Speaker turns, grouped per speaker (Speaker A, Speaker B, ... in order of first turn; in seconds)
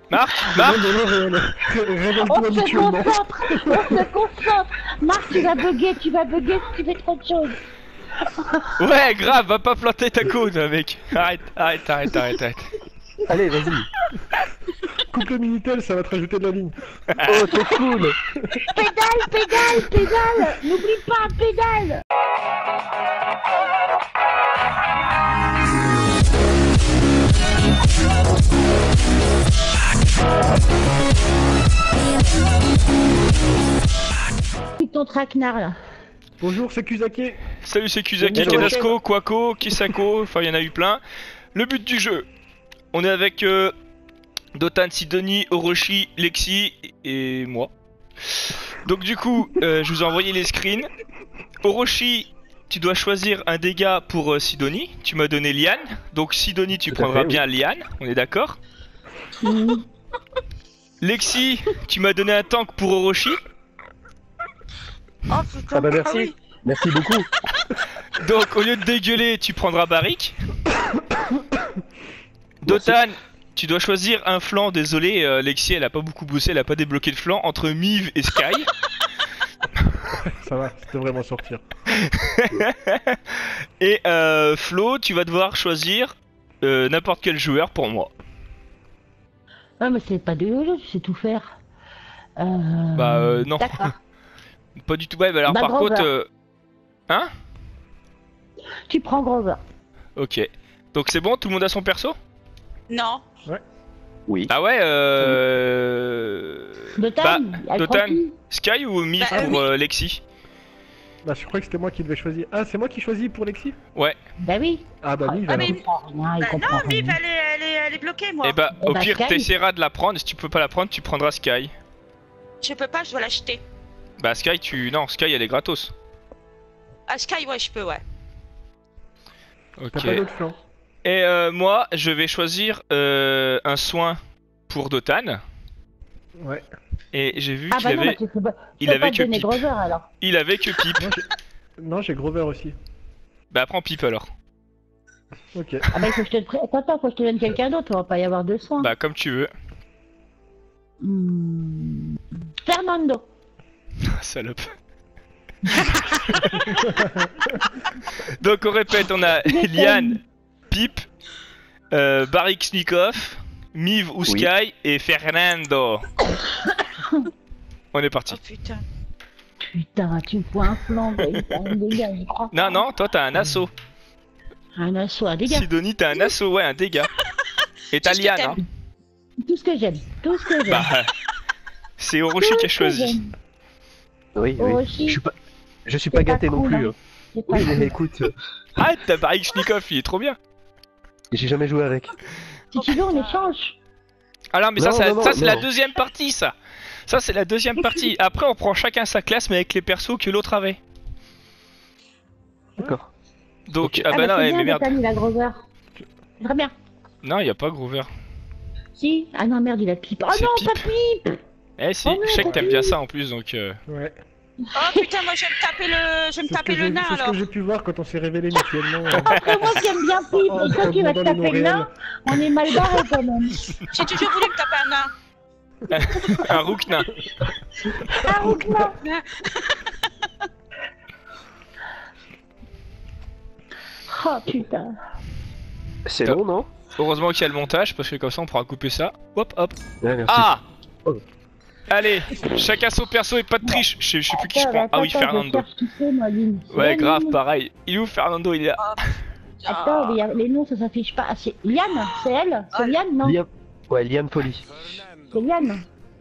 Speaker A: 0.1-0.9, 8.8-12.7, 37.6-41.0, 41.5-42.2, 42.9-43.7, 44.5-47.7, 48.3-50.9, 51.6-58.6, 61.0-63.4, 68.2-70.3, 72.6-78.7, 82.0-88.1, 93.0-93.9, 94.8-96.3, 100.2-102.2, 104.5-110.2, 118.4-121.7, 124.2-125.9, 129.8-130.2, 131.0-135.4, 137.1-138.2, 138.8-139.6, 140.2-141.1, 143.5-144.3, 148.8-149.5, 154.1-154.6, 158.4-161.1, 161.9-166.1, 167.9-168.4, 172.5-173.7, 175.4-177.1, 177.9-178.6, 180.7-181.1, 182.0-183.2, 188.8-190.4, 194.5-196.5, 197.1-200.8, 203.7-205.0, 207.2-208.1, 210.3-210.9, 211.8-213.8, 225.9-227.1, 237.0-239.7, 240.3-240.6, 241.9-245.7, 246.7-248.9
Speaker B: 0.5-4.0, 15.1-16.8, 36.4-37.4, 38.2-38.9, 80.1-81.6, 109.3-109.6, 111.2-113.8, 115.0-115.8, 129.9-130.6, 136.4-136.6, 141.0-141.3, 141.8-142.8, 145.5-146.0, 156.6-157.3, 212.4-212.7, 213.9-214.2, 216.4-219.3, 220.5-221.9, 228.0-228.9
Speaker C: 2.2-7.6, 18.7-22.0, 34.8-35.8, 59.4-59.8, 89.8-91.6, 92.4-93.9, 95.5-96.1, 98.9-99.6, 107.0-108.3, 114.4-117.2, 118.8-119.5, 137.7-140.1, 145.9-148.9, 151.0-153.3, 155.7-156.7, 159.4-160.2, 166.3-167.2, 169.7-172.8, 174.8-175.7, 179.4-180.9, 182.4-183.3, 184.6-185.2, 186.1-187.9, 192.7-193.8, 204.1-205.6, 206.4-206.7, 208.9-211.4, 212.0-212.9, 214.7-215.1, 219.3-223.7, 228.2-229.0, 234.1-234.9, 244.3-247.4, 249.6-253.4, 255.3-255.8
Speaker D: 13.3-13.9, 17.2-18.2, 38.3-38.9, 56.9-57.4, 65.7-67.3, 72.7-73.0, 104.3-104.5, 184.3-185.3, 185.8-186.9, 187.5-188.3, 191.3-192.1, 194.8-195.7, 202.8-203.1, 203.8-204.1, 236.1-236.7, 240.0-240.5, 253.2-254.9
Speaker E: 65.3-66.3, 102.9-103.2, 109.2-109.7, 115.5-115.8, 116.4-118.6, 122.6-123.6, 127.1-128.0, 168.3-168.8, 177.9-178.6, 192.8-193.3, 214.8-217.4, 223.9-225.1, 229.0-230.4, 249.6-250.2